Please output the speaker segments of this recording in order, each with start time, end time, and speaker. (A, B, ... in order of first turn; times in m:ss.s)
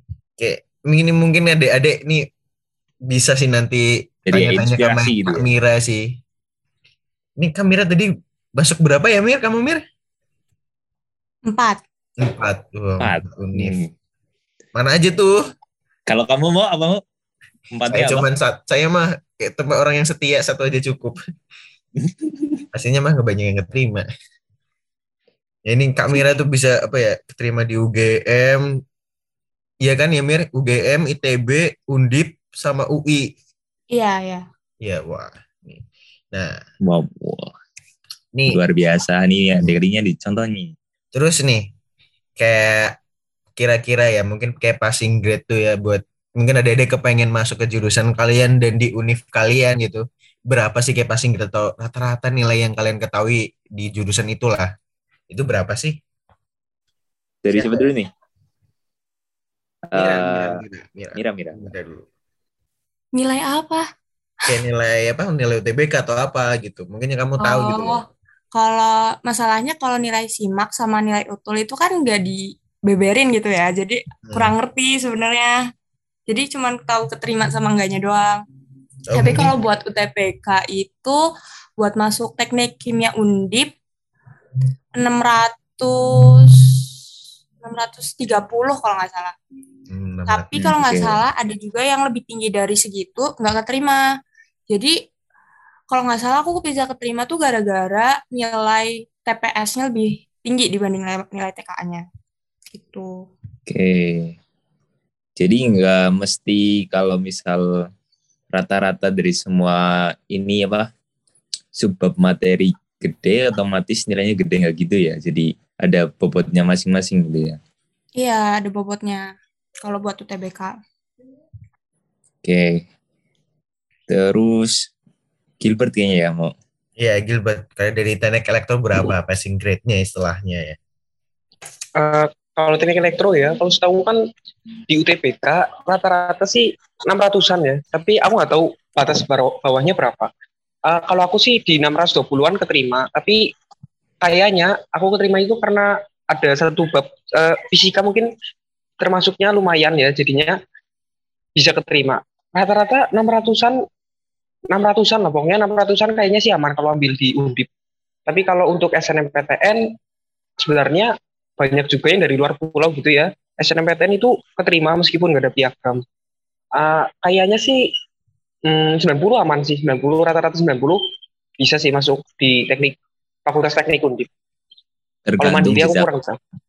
0:00.4-0:02.2 A
0:03.1-0:06.0 A
0:04.3-0:05.5 B
0:07.4-0:09.8 A
0:11.5-0:11.8 C
0:12.2-0:13.8 A
0:13.0-0:13.9 B
0:14.7-0:15.4 A
0:16.1-0:17.0 B
0:17.7-0:18.2 B
0:17.9-0:21.2 A
0:22.7-0:24.0 A
0:25.7-0:28.8 A
0:29.8-0:33.3 A
0:33.9-0:34.4 C
0:34.8-0:36.6 A
0:36.8-0:37.5 B
0:38.5-0:40.7 B
0:41.1-0:41.7 A
0:42.4-0:43.0 A
0:43.6-0:54.7 A
0:55.3-0:56.0 A
0:57.4-0:58.1 B
0:57.5-0:57.9 A
0:59.9-1:00.6 B
0:59.9-1:02.0 A
1:01.1-1:01.7 B
1:03.2-1:03.8 C
1:04.5-1:08.0 A
1:07.4-1:08.0 C
1:08.5-1:15.6 C
1:14.2-1:14.5 A
1:16.3-1:18.4 C
1:19.1-1:19.5 A
1:19.1-1:21.2 C
1:21.8-1:23.7 C
1:25.0-1:26.8 C
1:27.6-1:29.3 C
1:29.9-1:30.5 A
1:30.3-1:34.0 C
1:30.5-1:31.2 B
1:34.7-1:34.9 C
1:35.9-1:42.0 C
1:42.7-1:43.2 C
1:43.7-1:44.4 B
1:45.4-1:47.7 B
1:48.5-1:50.9 B
1:51.8-1:57.6 B
1:58.2-1:59.3 C
1:59.8-2:00.7 C
2:02.4-2:02.8 B
2:04.1-2:04.8 B
2:05.6-2:06.5 B
2:07.0-2:10.8 A
2:12.0-2:14.2 D
2:14.9-2:20.3 D
2:20.8-2:23.4 D
2:24.2-2:28.3 D
2:29.0-2:30.6 D
2:31.6-2:33.8 D
2:34.7-2:37.7 D
2:38.2-2:39.9 D
2:40.6-2:46.0 D
2:46.7-2:47.9 D
2:48.6-2:51.0 D
2:51.6-2:54.3 D
2:55.2-2:56.0 B
2:55.4-2:56.4 D